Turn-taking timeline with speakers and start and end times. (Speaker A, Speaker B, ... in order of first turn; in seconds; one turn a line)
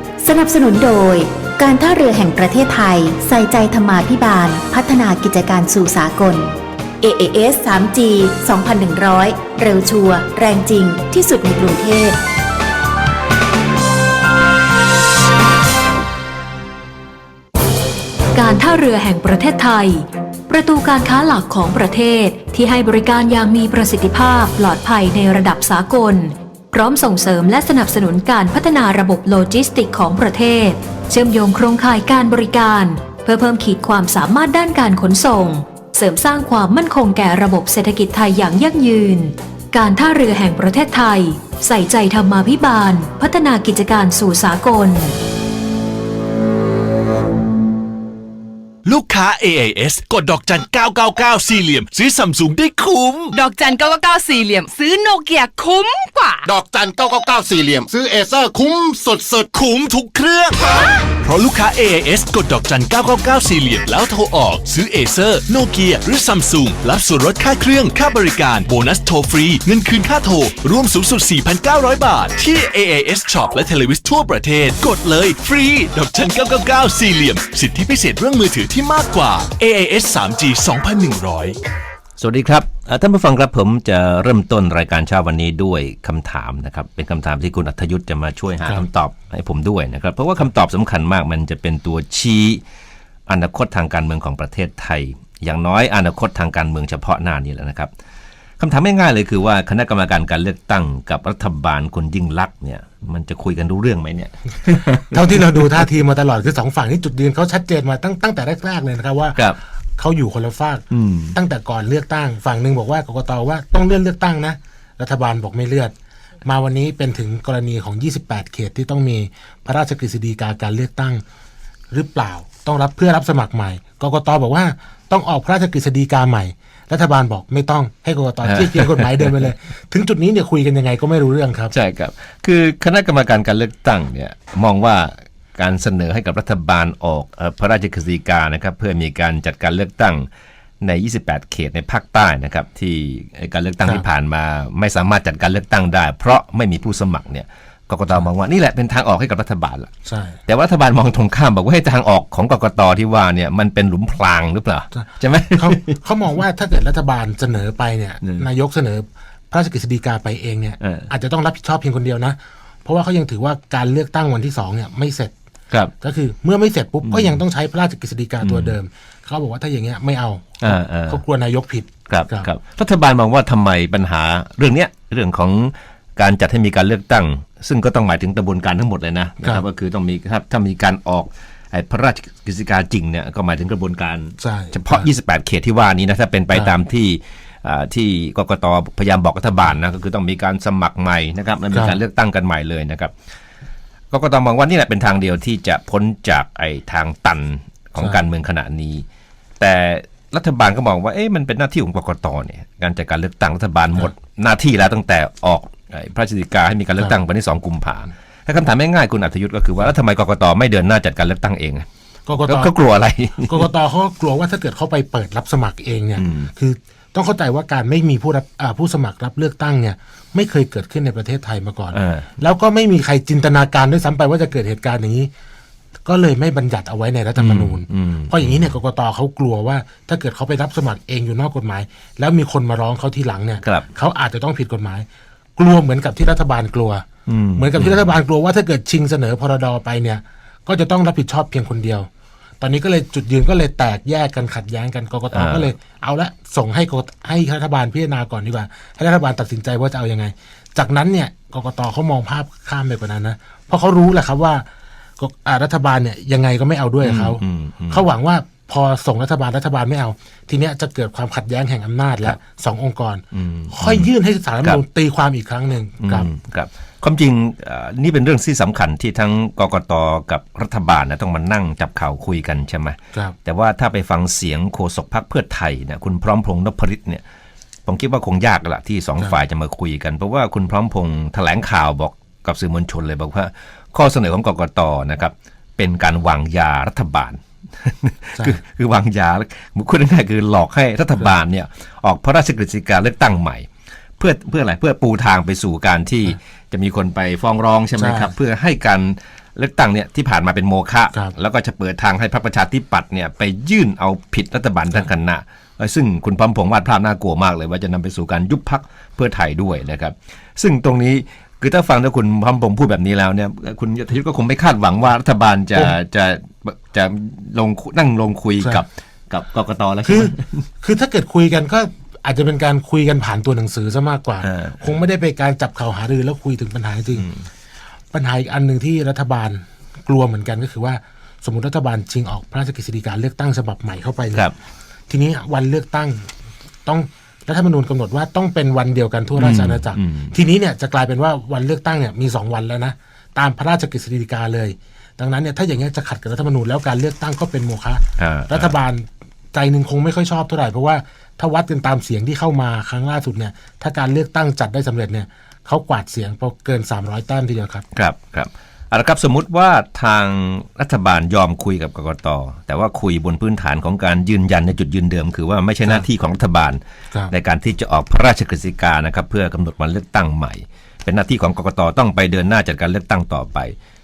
Speaker A: 0.2-12.2
Speaker B: 18.3-45.1
Speaker C: 48.8-53.3
Speaker D: 53.3-56.5
Speaker E: 56.5-59.5
Speaker C: 59.5-60.6
Speaker C: 61.2-81.5
Speaker F: 82.2-92.6
Speaker F: 93.3-97.9
Speaker F: 98.6-105.8
Speaker G: 105.1-109.4
Speaker G: 110.0-115.9
Speaker F: 110.9-111.3
Speaker G: 116.4-121.2
Speaker G: 121.9-131.7
Speaker F: 128.4-129.2
Speaker F: 131.7-140.3
Speaker F: 140.8-149.9
Speaker G: 150.1-150.4
Speaker F: 150.5-156.0
Speaker G: 154.9-165.3
Speaker F: 160.8-161.1
Speaker G: 166.0-172.5
Speaker F: 167.0-167.4
Speaker F: 168.4-168.8
Speaker F: 170.6-171.2
Speaker F: 172.1-193.1
Speaker G: 184.4-185.1
Speaker F: 194.1-199.1
Speaker F: 199.6-211.9
Speaker G: 212.3-212.7
Speaker F: 212.4-213.7
Speaker G: 213.4-225.3
Speaker F: 216.2-216.5
Speaker F: 221.9-222.3
Speaker G: 226.1-235.1
Speaker F: 227.3-228.7
Speaker G: 235.6-242.1
Speaker F: 237.3-238.1
Speaker G: 242.6-254.6
Speaker F: 245.3-245.7
Speaker G: 255.2-266.3
Speaker F: 257.0-258.0
Speaker F: 263.3-264.1
Speaker F: 266.0-277.2
Speaker F: 277.9-293.7
Speaker F: 294.2-320.6
Speaker G: 298.0-298.3
Speaker G: 320.0-327.3
Speaker F: 324.4-324.8
Speaker F: 327.2-327.4
Speaker G: 328.1-334.4
Speaker G: 335.1-336.3
Speaker G: 336.9-357.8
Speaker F: 339.4-340.3
Speaker F: 348.2-348.7
Speaker F: 357.9-373.8